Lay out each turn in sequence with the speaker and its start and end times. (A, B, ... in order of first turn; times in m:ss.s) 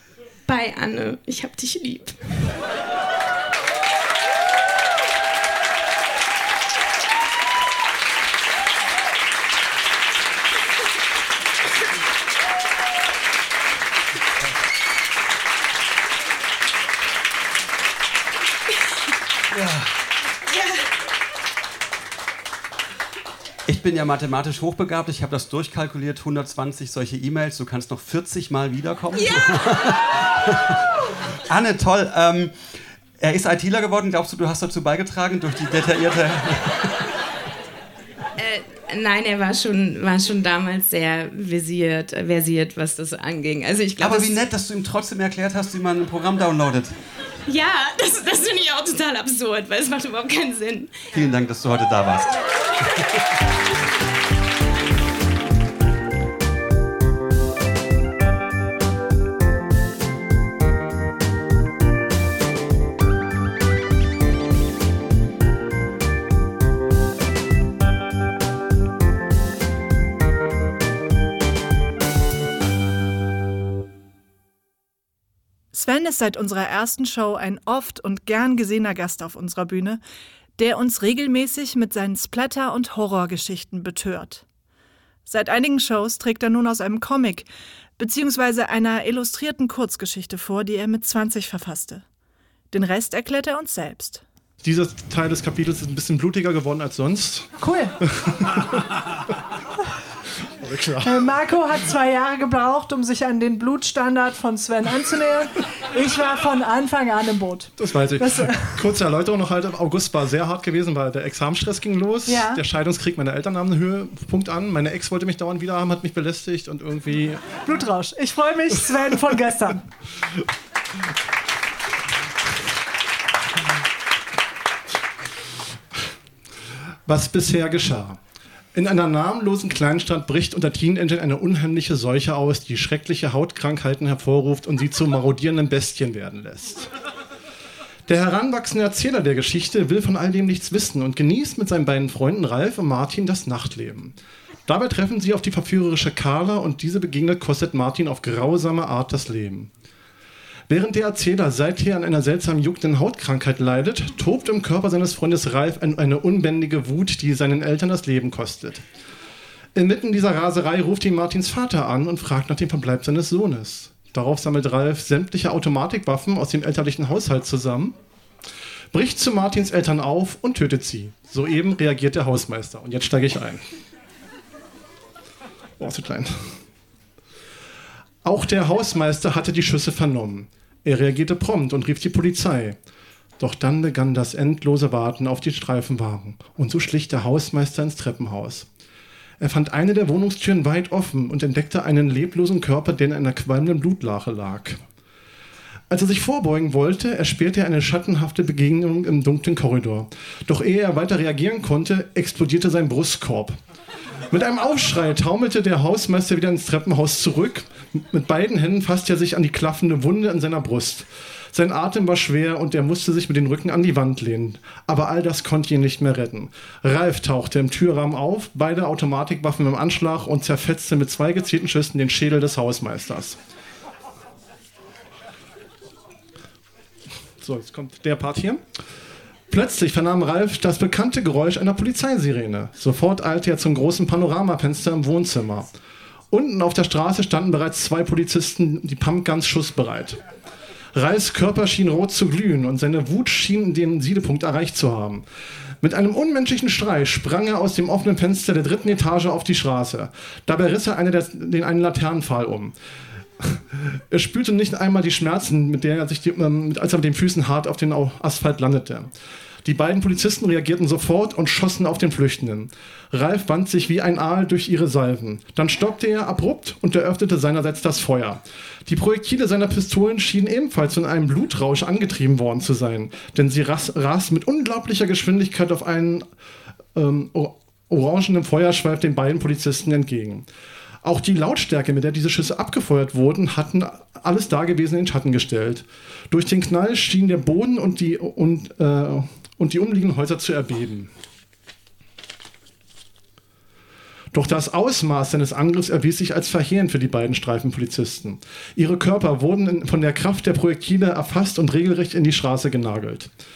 0:00.5-0:02.5 A
0:19.5-0:19.9 B
0:23.7-0:30.9 B
0:31.5-0:32.5 B
0:33.2-0:37.0 B
0:38.4-0:44.4 A
0:44.0-0:47.0 B
0:47.4-0:51.0 A
0:51.1-0:52.4 B
1:15.7-1:20.0 C
1:20.6-1:24.4 C
1:25.2-1:32.0 C
1:32.7-1:34.2 C
1:34.6-1:37.5 D
1:37.6-1:38.0 E
1:38.1-1:39.0 D
1:40.6-1:41.2 D
1:41.0-1:48.8 E
1:47.8-1:57.6 D
1:52.2-1:52.6 E
1:57.6-1:59.8 E
2:07.0-2:08.2 D
2:08.7-2:16.9 D
2:18.1-2:29.7 D
2:30.7-2:38.8 D
2:39.7-2:47.9 D
2:48.9-2:53.6 D
2:55.8-2:56.6 D
2:58.2-3:02.8 D
3:03.4-3:08.7 D
3:09.4-3:14.8 D
3:15.9-3:23.6 D
3:24.3-3:43.4 D
3:47.4-3:48.6 D
3:49.5-3:55.7 D
3:56.3-4:00.2 D
4:00.9-4:05.2 D
4:05.8-4:12.7 D
4:13.4-4:19.1 D
4:19.6-4:36.2 D
4:36.9-4:40.5 D
4:41.0-4:51.1 D
4:54.3-5:03.3 D